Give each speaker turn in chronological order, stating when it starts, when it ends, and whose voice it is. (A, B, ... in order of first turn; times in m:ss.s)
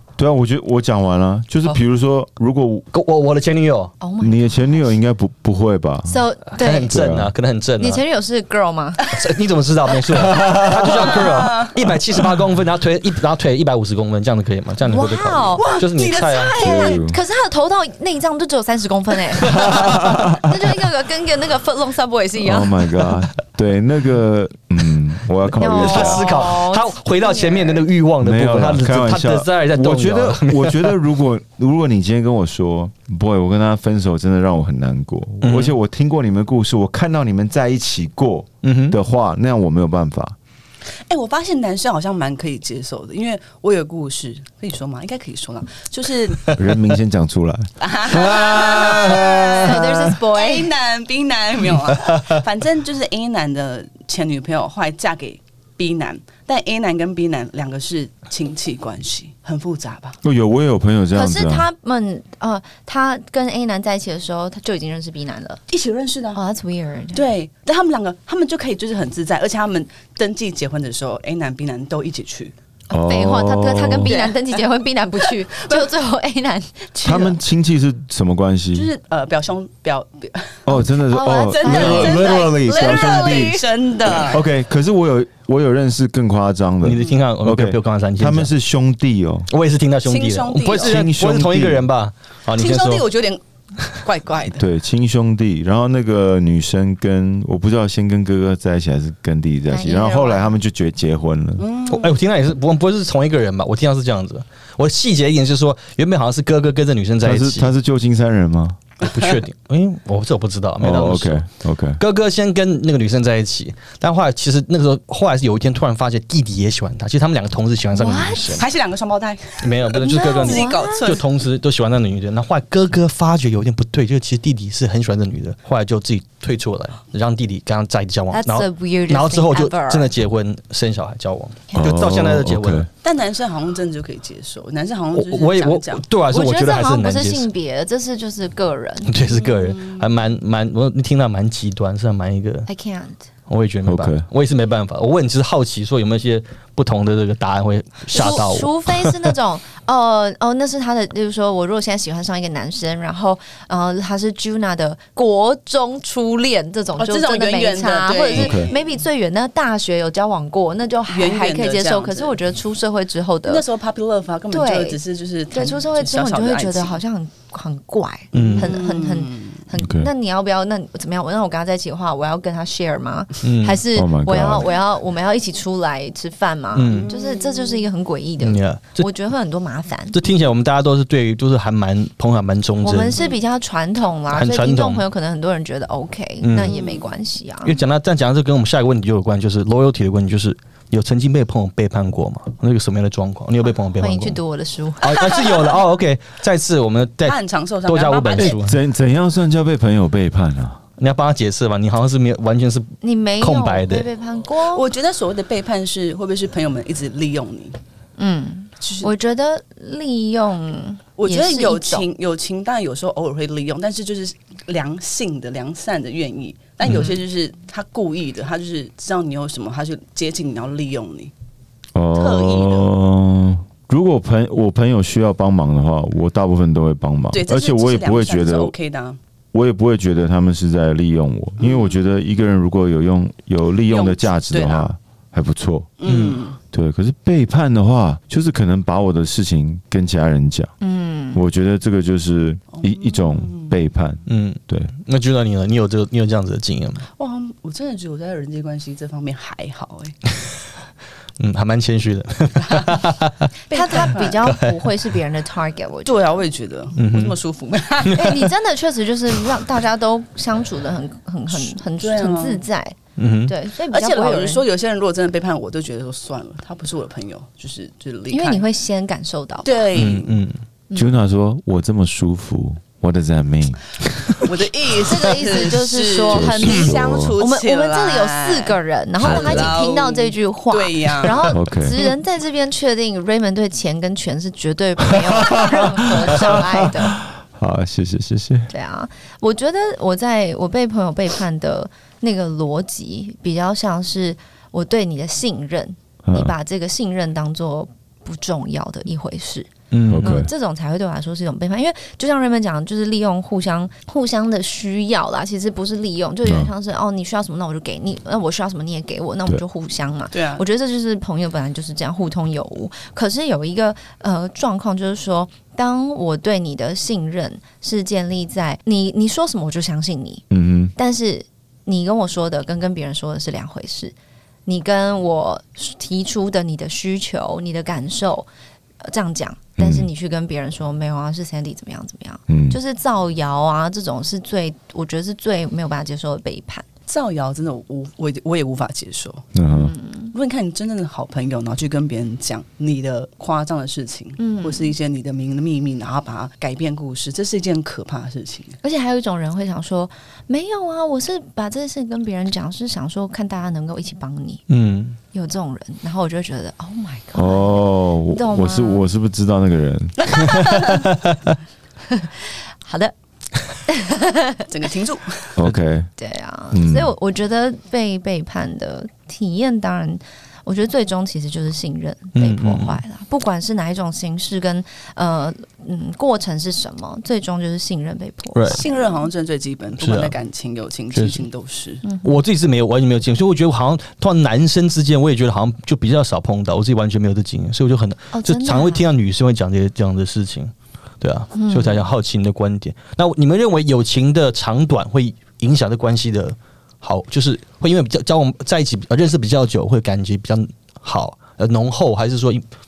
0:00.2-0:02.8 A
0:02.9-0:03.9 B
0:04.0-0:04.6 C
0:04.2-0:06.2 A
0:06.0-0:06.9 C
0:06.5-0:08.0 B
0:06.9-0:07.3 A
0:07.8-0:09.0 C
0:09.1-0:16.6 B
0:10.2-0:11.8 D
0:10.3-0:10.9 A
0:14.8-0:15.7 C
0:15.6-0:17.0 D
0:16.6-0:17.2 A
0:16.6-0:22.8 C
0:19.7-0:20.4 A
0:22.4-0:26.4 A
0:25.6-0:27.8 C
0:25.6-0:31.0 B
0:28.2-0:40.4 A
0:35.4-0:35.7 B
0:38.6-0:39.0 B
0:41.1-0:46.6 D
0:46.5-0:49.8 A
0:47.8-1:00.2 D
0:49.6-0:50.7 C
1:00.2-1:01.6 A
1:01.1-1:05.6 C
1:05.7-1:06.4 D
1:06.3-1:07.2 C
1:07.1-1:12.5 D
1:12.9-1:17.4 C
1:12.9-1:14.1 A
1:14.0-1:14.6 D
1:15.6-1:15.9 D
1:17.0-1:18.9 A
1:18.7-1:20.7 D
1:20.6-1:29.5 A
1:21.1-1:23.7 C
1:21.5-1:24.4 D
1:26.8-1:28.5 B
1:29.5-1:33.0 B
1:30.0-1:31.0 D
1:30.8-1:31.9 A
1:32.5-1:33.4 D
1:33.9-1:34.6 D
1:34.6-1:41.7 A
1:39.7-1:40.5 C
1:41.6-1:42.2 D
1:41.9-1:47.7 B
1:47.2-1:48.8 A
1:49.0-1:51.4 B
1:50.8-1:52.0 A
1:52.0-1:58.6 B
1:57.9-1:58.6 C
1:58.6-2:01.2 D
1:59.6-2:12.9 B
2:00.0-2:01.1 C
2:08.3-2:10.1 C
2:11.7-2:12.9 A
2:13.0-2:16.0 D
2:15.1-2:17.5 B
2:16.3-2:19.2 C
2:19.0-2:22.7 B
2:19.2-2:20.1 D
2:22.7-2:23.3 C
2:23.5-2:29.3 B
2:23.8-2:24.2 A
2:28.1-2:28.4 D
2:28.1-2:43.6 C
2:37.0-2:38.9 D
2:38.3-2:38.7 A
2:41.1-2:42.3 D
2:43.5-2:47.0 D
2:44.5-2:45.0 C
2:45.5-3:00.2 C
2:48.3-2:48.7 B
2:48.4-2:49.6 D
2:49.8-2:50.1 A
2:53.4-2:53.8 B
2:53.9-2:54.7 A
2:56.7-2:57.1 B
2:56.8-2:57.8 D
2:58.4-2:59.1 B
3:00.1-3:03.2 B
3:02.8-3:07.8 C
3:04.3-3:05.0 B
3:06.4-3:06.8 B
3:06.6-3:07.1 D
3:07.6-3:14.4 B
3:13.8-3:15.4 C
3:15.0-3:18.8 B
3:15.2-3:15.7 D
3:17.2-3:18.6 D
3:18.4-3:20.8 A
3:21.0-3:24.1 B
3:23.0-3:24.8 C
3:24.6-3:27.8 D
3:28.2-3:32.0 C
3:28.8-3:29.1 D
3:31.2-3:41.3 D
3:41.9-3:48.7 A
3:42.1-3:42.9 D
3:47.3-3:49.2 D
3:49.5-3:55.9 A
3:51.6-3:52.0 D
3:53.9-3:54.9 D
3:56.0-3:56.6 D
3:56.0-3:56.4 B
3:56.7-4:00.7 A
4:00.8-4:01.4 C
4:01.3-4:04.9 A
4:02.7-4:03.7 D
4:04.3-4:07.1 B
4:07.2-4:10.2 D
4:11.4-4:13.4 B
4:12.6-4:13.0 D
4:13.7-4:14.4 D
4:13.7-4:16.4 C
4:13.9-4:14.8 B
4:16.0-4:18.4 D
4:17.0-4:17.4 B
4:18.0-4:18.4 B
4:18.1-4:24.6 C
4:21.5-4:22.6 D
4:23.2-4:23.6 B
4:23.9-4:28.6 D
4:28.3-4:29.8 C
4:29.6-4:30.4 D
4:29.9-4:30.6 B
4:30.9-4:33.9 A
4:34.4-4:41.6 D
4:35.0-4:47.2 C
4:36.3-4:37.4 A
4:39.2-4:39.7 A
4:41.5-4:42.0 A
4:45.3-4:48.7 A
4:48.7-4:59.7 C
4:56.2-4:56.5 A
4:59.9-5:00.4 B
5:00.1-5:00.5 A
5:00.2-5:20.4 C
5:06.4-5:06.7 A
5:10.3-5:10.6 D
5:20.5-5:20.9 A
5:21.0-5:24.1 C
5:24.6-5:28.5 C
5:29.0-5:36.8 C
5:29.8-5:30.1 A
5:32.5-5:32.8 A
5:37.1-5:39.5 D
5:39.5-5:39.9 A
5:39.7-5:40.3 C
5:40.3-5:48.8 D
5:44.4-5:44.9 C
5:48.8-5:54.6 C
5:54.7-5:55.2 B
5:55.3-5:59.0 C
5:57.3-6:00.4 A
6:00.4-6:01.0 D
6:02.1-6:03.1 C
6:03.9-6:04.6 C
6:04.7-6:05.6 D
6:05.6-6:06.1 A
6:06.2-6:19.2 C
6:06.7-6:07.1 A
6:12.4-6:13.0 B
6:18.5-6:18.8 B
6:18.7-6:22.0 D
6:20.0-6:20.3 B
6:21.1-6:21.4 B
6:22.2-6:42.6 B
6:28.3-6:29.0 C
6:31.5-6:32.0 C